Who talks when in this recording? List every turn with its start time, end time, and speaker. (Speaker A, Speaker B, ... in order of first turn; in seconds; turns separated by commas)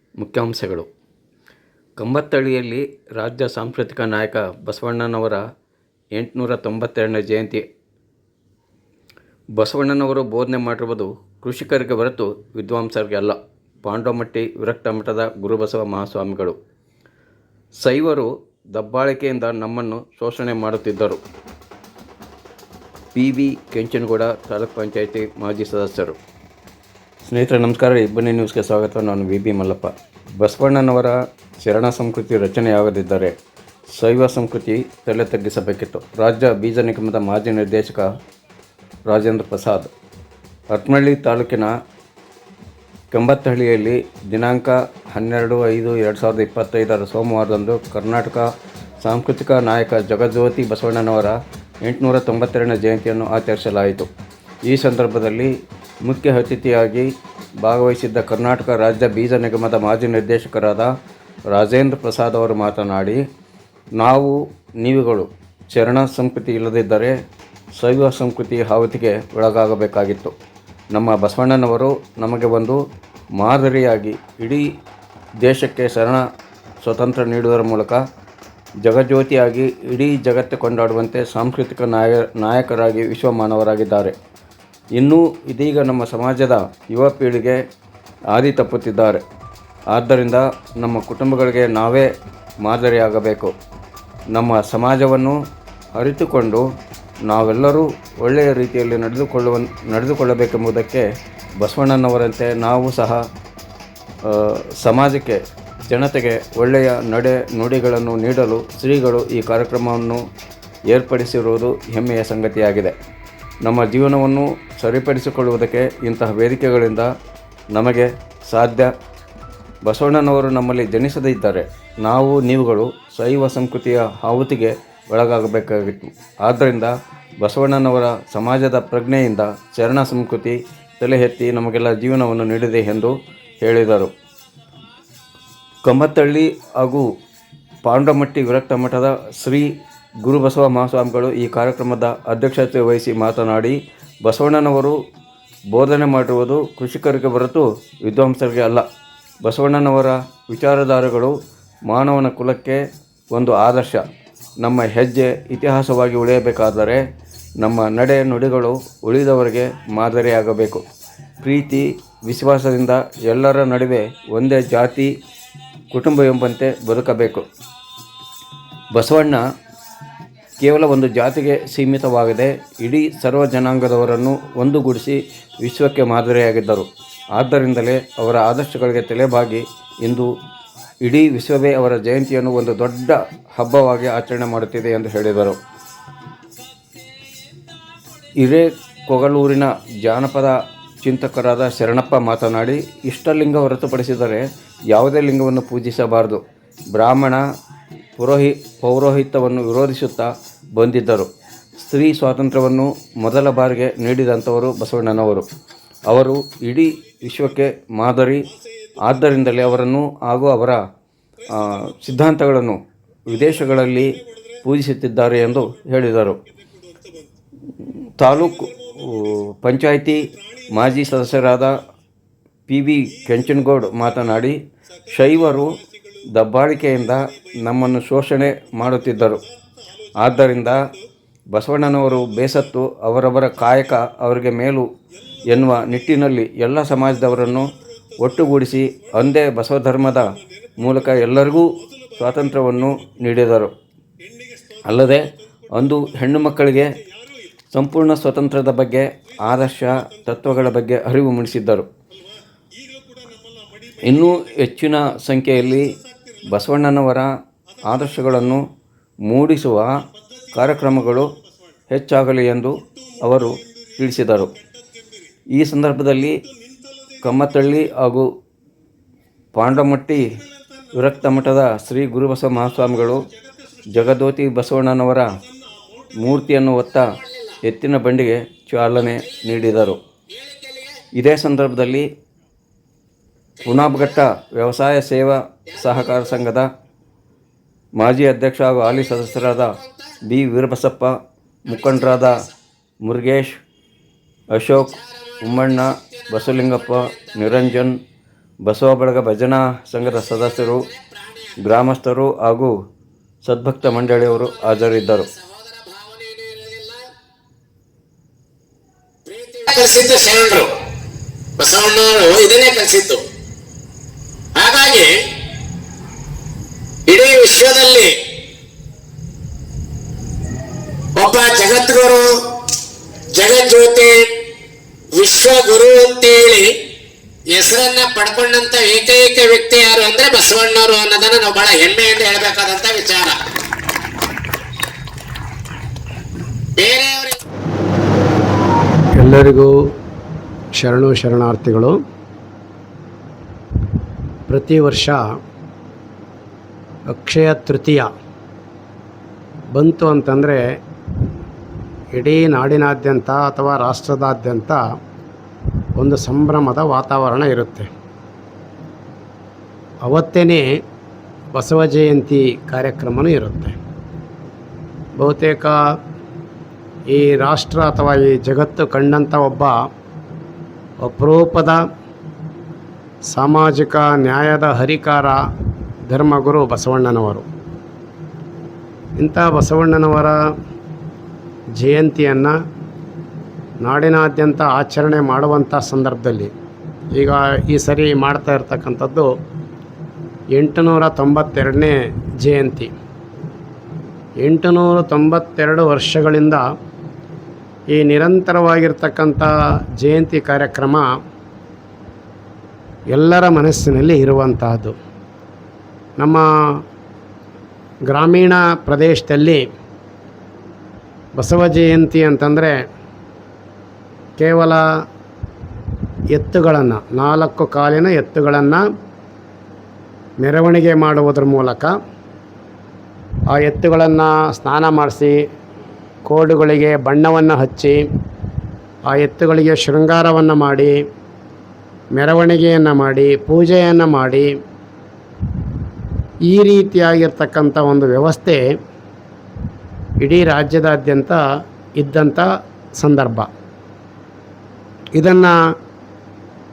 Speaker A: 0.2-0.9, Speaker A: 2.0-5.4, Speaker A: 6.1-7.6, Speaker A: 9.6-16.6, Speaker A: 17.8-21.2, Speaker A: 23.1-26.2, Speaker A: 27.3-33.3, Speaker A: 33.9-38.0, Speaker A: 39.1-39.9, Speaker A: 40.7-41.7, Speaker A: 43.1-48.4, Speaker A: 49.0-54.1, Speaker A: 54.7-55.5, Speaker A: 56.0-57.1, Speaker A: 57.6-60.9, Speaker A: 61.5-63.2, Speaker A: 64.0-67.1, Speaker A: 67.8-70.3, Speaker A: 70.9-72.8, Speaker A: 73.4-74.6, Speaker A: 75.4-76.2, Speaker A: 76.8-78.0, Speaker A: 78.8-84.1, Speaker A: 85.0-87.6, Speaker A: 88.3-89.2, Speaker A: 89.9-92.1, Speaker A: 92.6-93.5, Speaker A: 94.3-95.4, Speaker A: 96.0-96.6, Speaker A: 97.3-101.0, Speaker A: 101.6-103.2, Speaker A: 104.3-110.2, Speaker A: 110.9-112.9, Speaker A: 113.6-117.1, Speaker A: 117.7-118.9, Speaker A: 119.8-134.1, Speaker A: 135.8-137.1, Speaker A: 137.8-139.7, Speaker A: 140.2-144.9, Speaker A: 145.7-148.8, Speaker A: 149.4-151.3, Speaker A: 151.9-152.8, Speaker A: 153.3-154.0, Speaker A: 154.6-157.0, Speaker A: 157.6-160.8, Speaker A: 161.4-165.1, Speaker A: 165.9-167.4, Speaker A: 168.9-169.4, Speaker A: 170.6-180.3, Speaker A: 181.0-185.6, Speaker A: 188.4-196.4, Speaker A: 196.9-197.4, Speaker A: 198.2-205.4, Speaker A: 206.1-208.4, Speaker A: 209.0-210.8, Speaker A: 211.5-212.8, Speaker A: 213.3-214.1, Speaker A: 214.6-216.3, Speaker A: 218.2-220.2, Speaker A: 220.7-221.7, Speaker A: 222.7-224.6, Speaker A: 225.1-225.7, Speaker A: 226.3-229.4, Speaker A: 230.2-230.8, Speaker A: 231.5-234.8, Speaker A: 235.5-237.7, Speaker A: 238.2-240.2, Speaker A: 240.8-243.7, Speaker A: 244.9-245.2, Speaker A: 245.7-246.9, Speaker A: 247.7-251.9, Speaker A: 254.1-255.9, Speaker A: 256.5-257.3, Speaker A: 257.9-258.6, Speaker A: 259.3-259.9, Speaker A: 260.5-261.3, Speaker A: 261.9-264.5, Speaker A: 265.5-266.4, Speaker A: 267.2-268.2, Speaker A: 269.5-270.2, Speaker A: 271.0-273.2, Speaker A: 273.9-275.3, Speaker A: 276.2-277.1, Speaker B: 277.2-277.5, Speaker A: 277.6-280.0, Speaker B: 280.3-281.0, Speaker A: 281.1-282.1, Speaker A: 283.6-286.7, Speaker B: 285.9-286.3, Speaker A: 288.0-291.1, Speaker B: 289.8-290.1, Speaker A: 291.6-292.4, Speaker B: 291.9-292.2, Speaker A: 293.0-293.6, Speaker A: 294.5-298.0, Speaker B: 295.0-297.4, Speaker A: 298.6-300.9, Speaker B: 300.9-301.5, Speaker A: 301.6-302.7, Speaker A: 303.4-305.3, Speaker B: 305.2-307.1, Speaker B: 309.2-310.7, Speaker B: 311.6-313.2, Speaker B: 314.6-315.1, Speaker B: 317.1-318.1, Speaker B: 321.1-322.5, Speaker B: 323.3-324.3, Speaker B: 325.1-326.7, Speaker B: 327.5-333.4, Speaker B: 336.8-337.4, Speaker C: 339.2-339.7, Speaker C: 340.7-342.0, Speaker C: 344.5-345.2, Speaker C: 347.1-348.1, Speaker C: 349.7-350.6, Speaker C: 352.1-354.8, Speaker C: 356.0-357.9, Speaker C: 360.0-360.6, Speaker C: 361.5-363.8, Speaker C: 365.2-365.7, Speaker C: 367.1-369.7, Speaker C: 371.0-371.8, Speaker C: 373.3-375.4, Speaker C: 376.1-377.4, Speaker C: 379.2-380.4, Speaker C: 381.8-382.5, Speaker C: 383.8-386.5, Speaker C: 387.1-389.3, Speaker C: 390.5-392.9, Speaker C: 394.4-396.6, Speaker C: 397.9-401.1, Speaker C: 403.1-404.9, Speaker C: 406.2-406.8, Speaker C: 408.1-409.6, Speaker C: 411.4-412.8, Speaker C: 414.4-414.8, Speaker C: 416.3-418.8, Speaker C: 420.4-421.9, Speaker C: 423.5-425.4, Speaker C: 426.3-428.0, Speaker C: 429.1-430.9, Speaker C: 432.1-434.5, Speaker C: 436.5-438.6, Speaker C: 440.2-441.4, Speaker C: 442.0-442.4, Speaker C: 443.0-443.5, Speaker C: 445.1-445.5